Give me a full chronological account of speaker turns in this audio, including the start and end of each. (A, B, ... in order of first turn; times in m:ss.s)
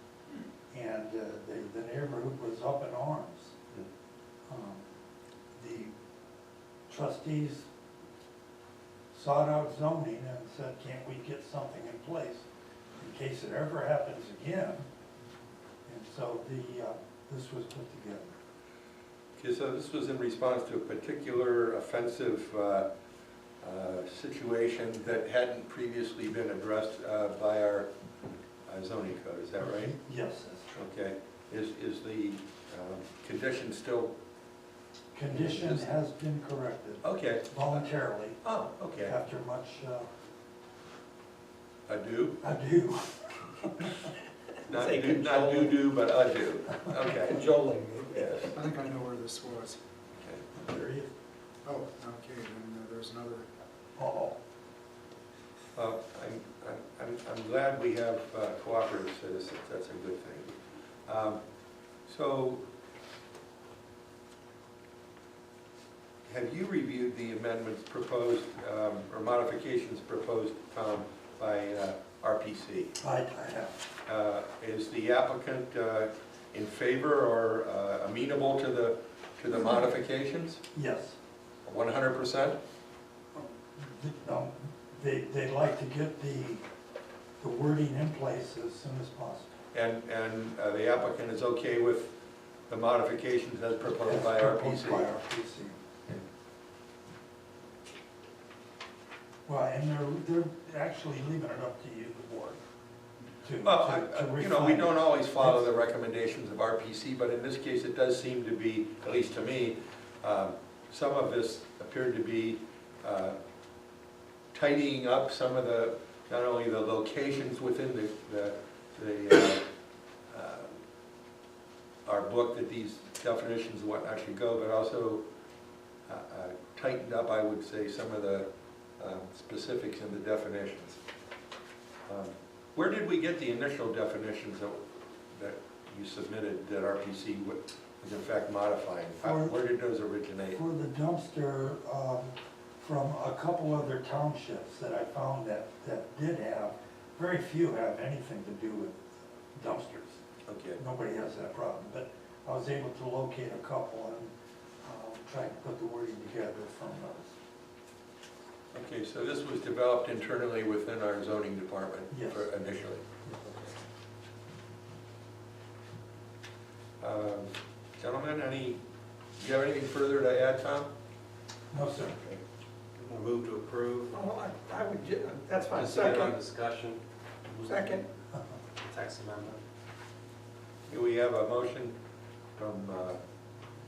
0:00.7-0:03.5 A
0:04.5-0:04.9 A
0:05.5-0:05.9 A
0:06.9-0:07.7 A
0:09.1-0:12.4 A
0:13.0-0:14.9 A
0:15.8-0:18.3 A
0:19.4-0:22.9 B
0:23.6-0:27.9 B
0:28.7-0:30.0 B
0:29.6-0:30.7 A
0:30.7-0:34.1 B
0:35.1-0:38.4 A
0:35.3-0:35.9 B
0:37.0-0:37.9 B
0:38.4-0:39.2 B
0:39.0-0:40.1 A
0:41.9-0:42.4 B
0:42.4-0:44.0 A
0:44.7-0:45.8 C
0:44.7-0:47.4 B
0:47.2-0:48.2 C
0:48.1-0:48.5 B
0:48.5-0:49.8 D
0:50.2-0:50.5 B
0:50.6-0:51.1 A
0:51.6-0:53.5 D
0:54.0-0:54.4 A
0:55.7-1:00.6 B
1:01.1-1:01.4 B
1:02.0-1:02.6 B
1:06.3-1:12.9 B
1:13.0-1:13.9 A
1:14.0-1:20.6 B
1:20.7-1:21.2 A
1:21.6-1:22.6 B
1:23.3-1:26.6 A
1:27.4-1:29.5 A
1:29.7-1:32.1 B
1:32.7-1:35.1 B
1:33.9-1:35.8 A
1:39.4-1:42.6 A
1:43.4-1:45.6 A
1:43.6-1:53.4 B
1:54.5-1:59.6 B
2:00.3-2:00.8 B
2:02.0-2:05.2 B
2:06.1-2:08.5 B
2:09.0-2:11.0 B
2:12.0-2:20.6 B
2:19.2-2:19.6 A
2:20.5-2:30.2 A
2:30.4-2:30.8 B
2:30.8-2:37.4 A
2:38.7-2:43.0 B
2:42.1-2:42.5 A
2:43.2-2:43.6 A
2:47.0-2:48.8 B
2:49.4-2:50.9 B
2:51.7-2:52.2 A
2:53.0-2:54.1 E
2:54.1-2:56.4 C
2:55.7-2:57.9 E
2:57.6-2:58.0 C
2:58.8-2:59.6 E
3:00.9-3:01.9 B
3:02.6-3:03.2 B